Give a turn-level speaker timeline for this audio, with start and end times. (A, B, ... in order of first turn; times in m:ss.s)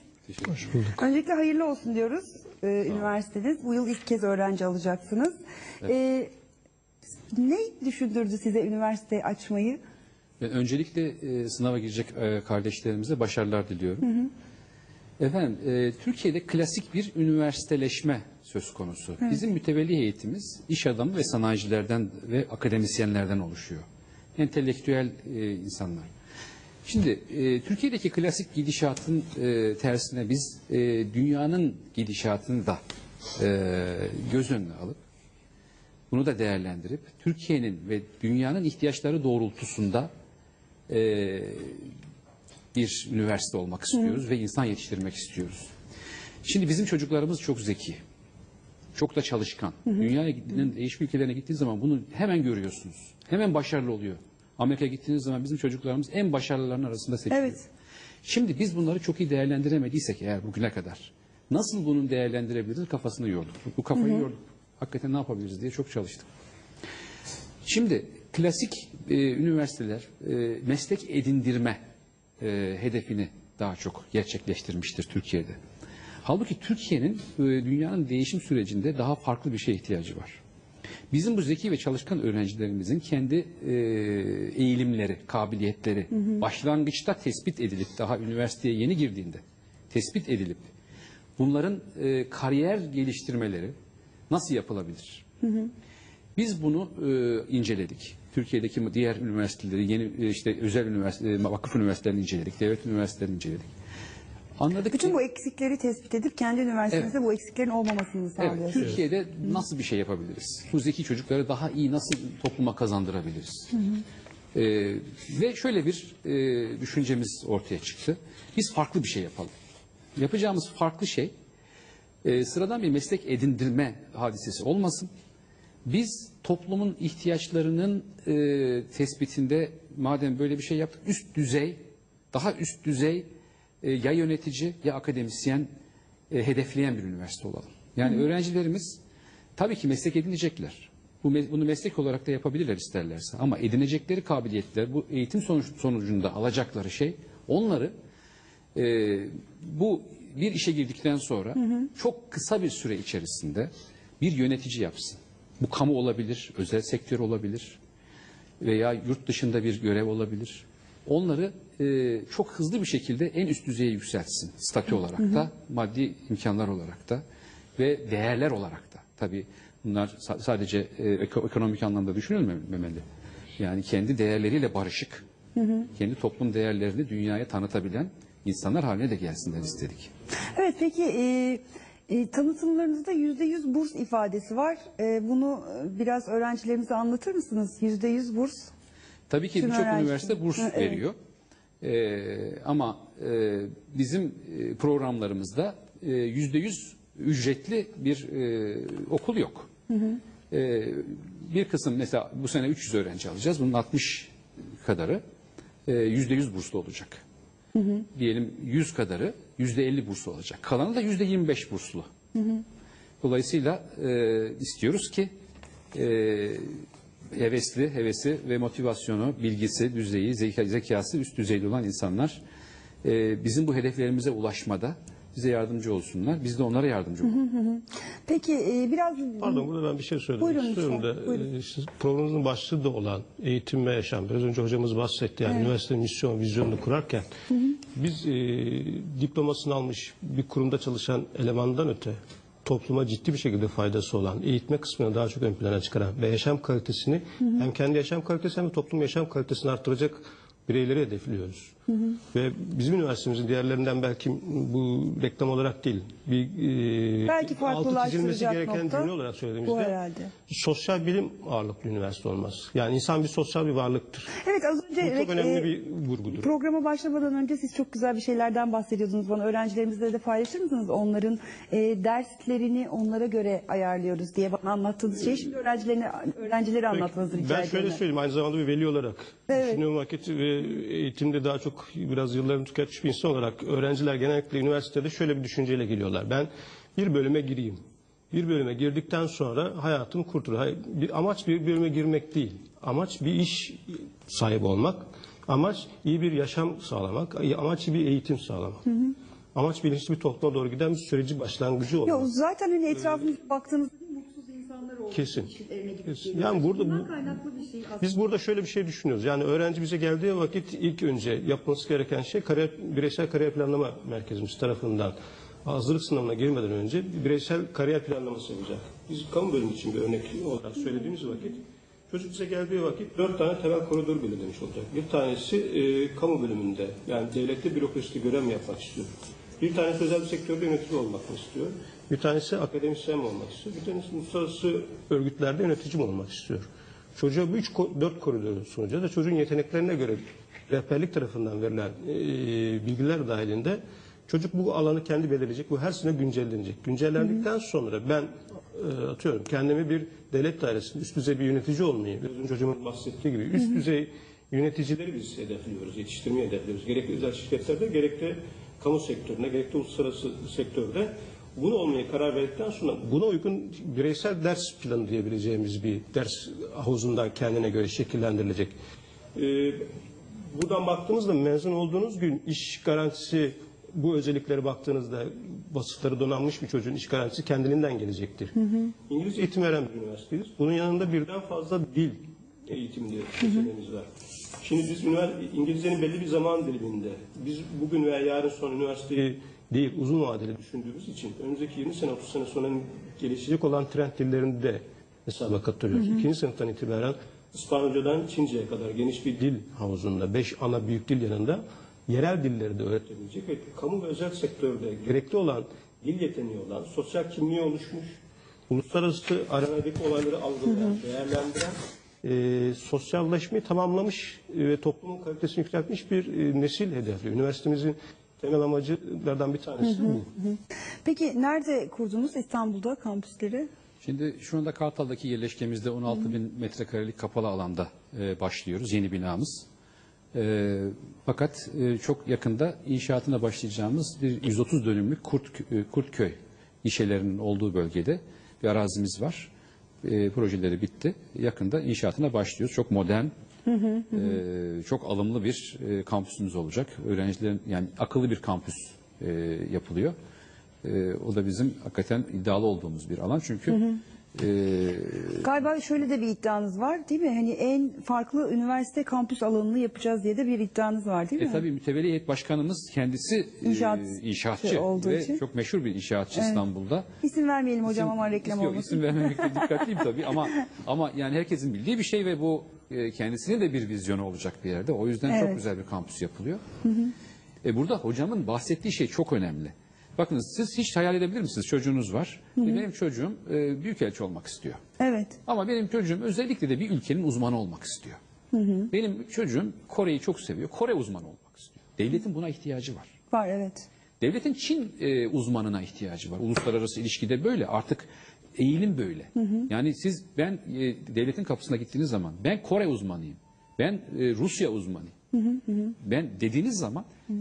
0:00.3-0:00.6 A
0:00.5-0:01.0 B
0:01.0-0:06.3 C
0:07.3-0:09.8 C
0:10.4-0:14.1 A
0:14.0-0:14.3 C
0:15.2-0:23.8 A
0:24.4-0:26.1 A
0:26.8-0:32.8 A
0:33.4-0:35.0 A
0:36.1-0:40.1 A
0:40.9-0:41.9 A
0:42.7-0:45.7 A
0:46.4-0:48.0 A
0:49.0-0:57.7 A
0:58.2-1:06.3 A
1:04.0-1:04.3 C
1:07.6-1:11.8 A
1:12.4-1:15.6 A
1:16.2-1:20.4 A
1:21.1-1:30.7 A
1:31.4-1:33.7 A
1:34.3-1:35.2 A
1:35.4-1:35.7 C
1:36.4-1:43.7 A
1:44.6-1:45.2 A
1:44.9-1:48.9 C
1:48.4-1:53.8 A
1:54.5-1:59.5 A
2:00.2-2:01.3 A
2:02.2-2:05.1 A
2:05.9-2:13.3 A
2:13.8-2:15.7 A
2:16.3-2:19.0 A
2:19.6-2:27.9 A
2:28.8-2:37.8 A
2:38.6-2:47.2 A
2:47.8-2:53.0 A
2:53.6-2:55.2 A
2:55.6-2:55.9 C
2:55.9-3:00.1 A
3:00.6-3:08.7 C
3:09.3-3:11.2 A
3:09.6-3:11.0 C
3:11.8-3:19.7 A
3:19.9-3:20.2 C
3:20.5-3:25.2 A
3:25.9-3:27.2 A
3:27.8-3:28.1 C
3:28.1-3:32.1 A
3:32.4-3:32.6 C
3:33.2-3:35.3 A
3:35.9-3:36.8 A
3:37.3-3:42.4 A
3:43.0-3:47.4 A
3:47.2-3:49.7 C
3:49.4-3:57.3 B
3:50.4-3:51.5 C
3:57.9-4:11.7 B
4:12.3-4:24.3 B
4:17.3-4:19.1 C
4:19.6-4:20.3 C
4:24.4-4:25.7 C
4:25.0-4:26.5 B
4:26.3-4:38.0 C
4:36.9-4:58.8 B
4:39.5-4:39.8 C
4:58.9-4:59.2 C
4:59.6-5:02.3 B
5:02.0-5:08.1 C
5:05.1-5:05.5 B
5:06.1-5:07.2 B
5:08.0-6:08.7 B
6:09.4-6:09.9 B
6:10.5-6:18.6 B
6:19.1-6:24.1 B
6:24.6-6:48.2 B
6:48.7-7:00.3 B
6:59.8-7:03.7 C
7:04.0-7:09.7 A
7:10.3-7:19.5 A
7:20.0-7:23.3 A
7:23.7-7:24.4 C
7:24.1-7:30.1 A
7:30.8-7:33.8 A
7:33.7-7:34.0 C
7:34.4-7:35.4 A
7:35.4-7:41.6 C
7:41.4-7:47.1 A
7:43.6-7:45.4 C
7:46.3-7:46.6 C
7:47.2-7:49.8 C
7:47.9-7:56.6 A
7:55.3-7:55.6 C
7:56.8-7:57.1 C
7:57.6-8:04.8 A
8:05.0-8:05.4 C
8:05.5-8:08.2 A
8:08.5-8:08.9 C
8:08.9-8:13.1 A
8:13.3-8:13.9 C
8:14.2-8:25.2 A
8:19.4-8:19.7 C
8:25.3-8:25.9 C
8:26.0-8:27.1 A